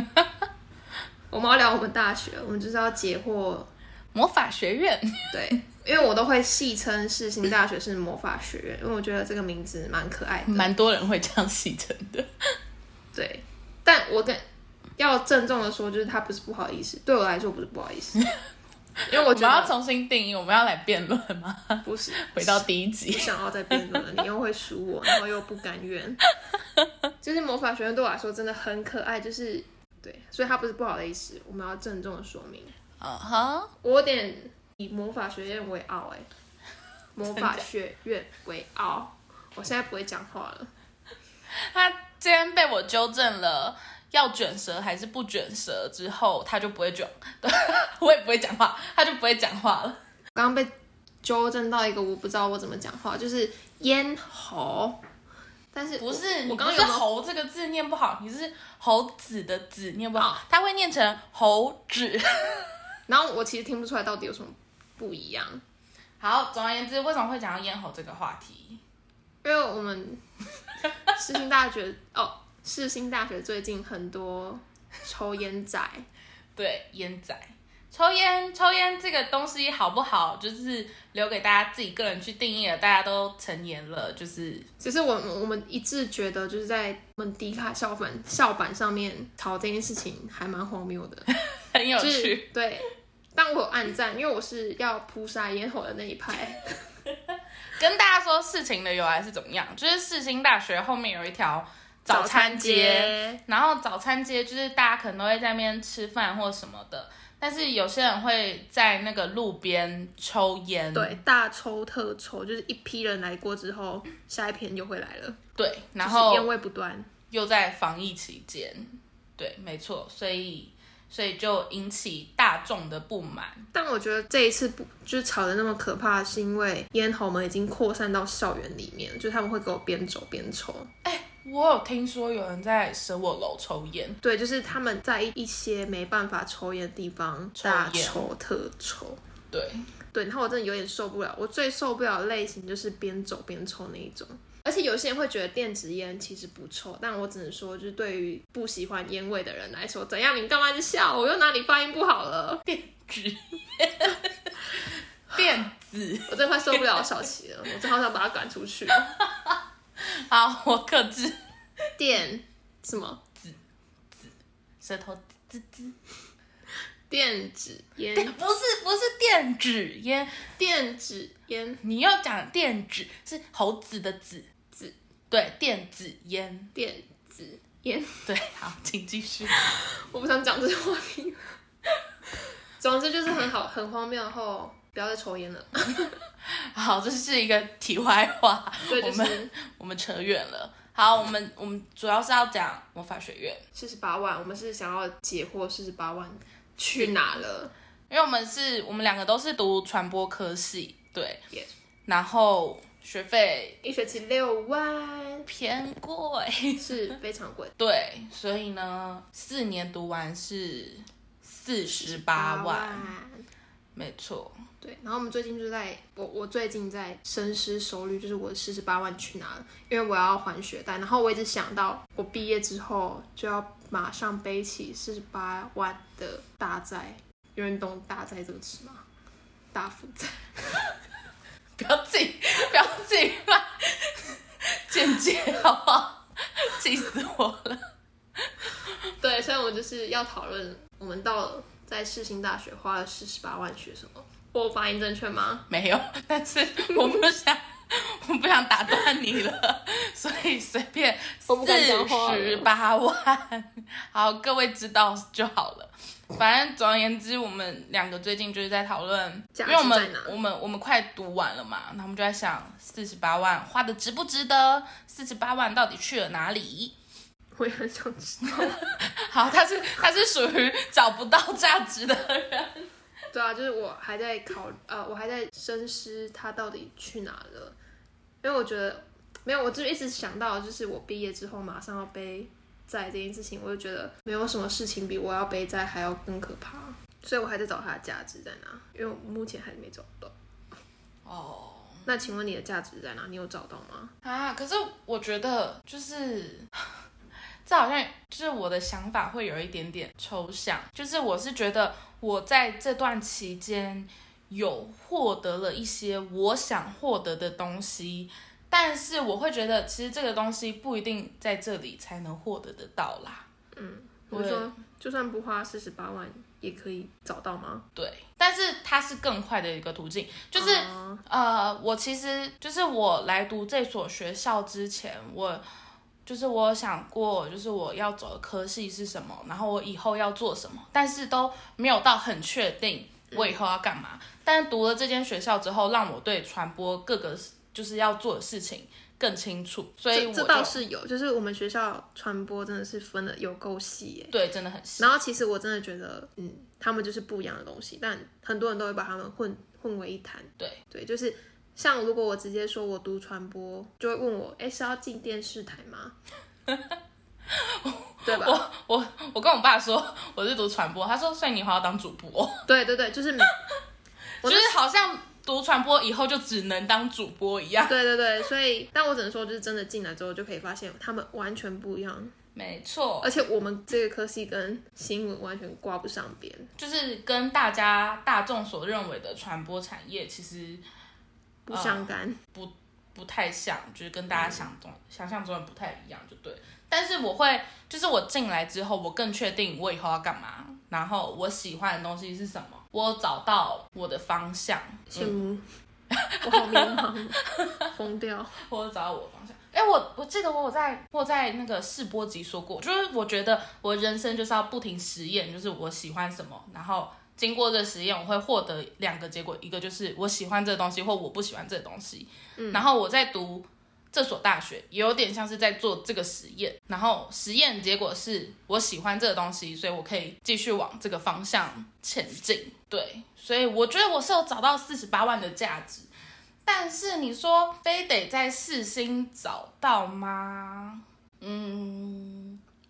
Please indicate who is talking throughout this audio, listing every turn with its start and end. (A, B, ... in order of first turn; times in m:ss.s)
0:01.3-0:03.7 A
0:04.1-0:05.4 B
0:05.3-0:10.7 A
0:10.5-0:12.3 B
0:13.1-0:14.4 A
0:15.0-0:18.2 A
0:19.1-0:19.8 A
0:19.1-0:24.0 B
0:21.8-0:26.2 A
0:27.2-0:32.8 A
0:33.0-0:33.7 B
0:33.8-0:36.2 A
0:37.2-0:40.7 A
0:37.3-0:37.6 B
0:41.7-0:50.0 B
0:50.3-0:50.7 A
0:51.2-0:55.0 A
0:55.7-0:57.0 A
0:56.0-1:02.7 B
1:00.2-1:00.4 A
1:03.1-1:05.6 A
1:06.2-1:08.8 B
1:09.4-1:10.2 A
1:11.1-1:16.0 A
1:16.6-1:24.7 B
1:24.8-1:31.3 A
1:31.5-1:32.5 B
1:32.0-1:36.7 A
1:37.7-1:51.2 B
1:42.1-1:43.4 A
1:50.9-1:55.4 A
1:55.6-1:56.5 B
1:56.0-1:57.1 A
1:57.3-2:03.6 B
2:03.7-2:10.9 A
2:11.0-2:14.2 B
2:14.2-2:19.2 A
2:17.6-2:18.3 B
2:19.5-2:19.8 B
2:20.1-2:32.6 A
2:32.7-2:37.0 B
2:36.3-2:39.2 A
2:39.2-2:41.4 B
2:42.0-2:43.2 A
2:44.2-2:46.0 B
2:47.1-2:48.4 A
2:48.2-2:50.4 B
2:50.6-2:51.8 A
2:51.8-2:54.4 B
2:55.3-2:56.7 B
2:56.7-2:58.3 A
2:58.3-2:59.6 B
2:59.6-3:01.5 A
3:02.8-3:06.2 A
3:06.5-3:13.6 B
3:08.9-3:09.5 A
3:13.7-3:17.7 A
3:16.9-3:17.2 B
3:18.1-3:21.4 B
3:22.1-3:23.8 B
3:23.8-3:25.5 A
3:25.5-3:27.0 B
3:26.8-3:27.7 A
3:27.8-3:33.1 B
3:31.8-3:33.4 A
3:33.9-3:34.6 B
3:34.8-3:49.0 A
3:49.7-3:50.4 A
3:51.8-3:57.8 B
3:58.5-3:58.9 B
3:59.2-4:05.7 A
4:05.7-4:27.0 B
4:11.5-4:12.7 A
4:19.6-4:20.4 A
4:27.6-4:28.9 A
4:29.3-4:32.9 B
4:33.3-4:37.8 A
4:38.4-4:50.4 A
4:51.2-4:52.1 B
4:52.0-4:54.1 A
4:54.2-4:56.7 B
4:57.6-5:13.4 B
5:13.7-5:17.8 A
5:14.3-5:14.7 B
5:18.0-5:25.6 B
5:20.6-5:21.2 A
5:26.3-5:40.8 B
5:40.1-5:44.3 A
5:44.3-5:45.1 B
5:45.0-5:56.2 A
5:56.7-5:56.9 B
5:57.5-6:02.6 B
5:58.2-5:58.7 A
6:02.7-6:03.5 A
6:04.4-6:08.0 B
6:04.4-6:04.7 A
6:07.9-6:12.3 A
6:12.6-6:13.3 B
6:13.2-6:16.7 A
6:16.8-6:20.8 B
6:21.7-6:22.4 A
6:21.7-6:35.3 B
6:24.3-6:24.7 A
6:35.1-6:35.6 A
6:36.1-6:37.8 B
6:36.4-6:38.6 A
6:38.6-7:06.1 B
6:52.6-6:52.9 A
7:06.6-7:12.6 B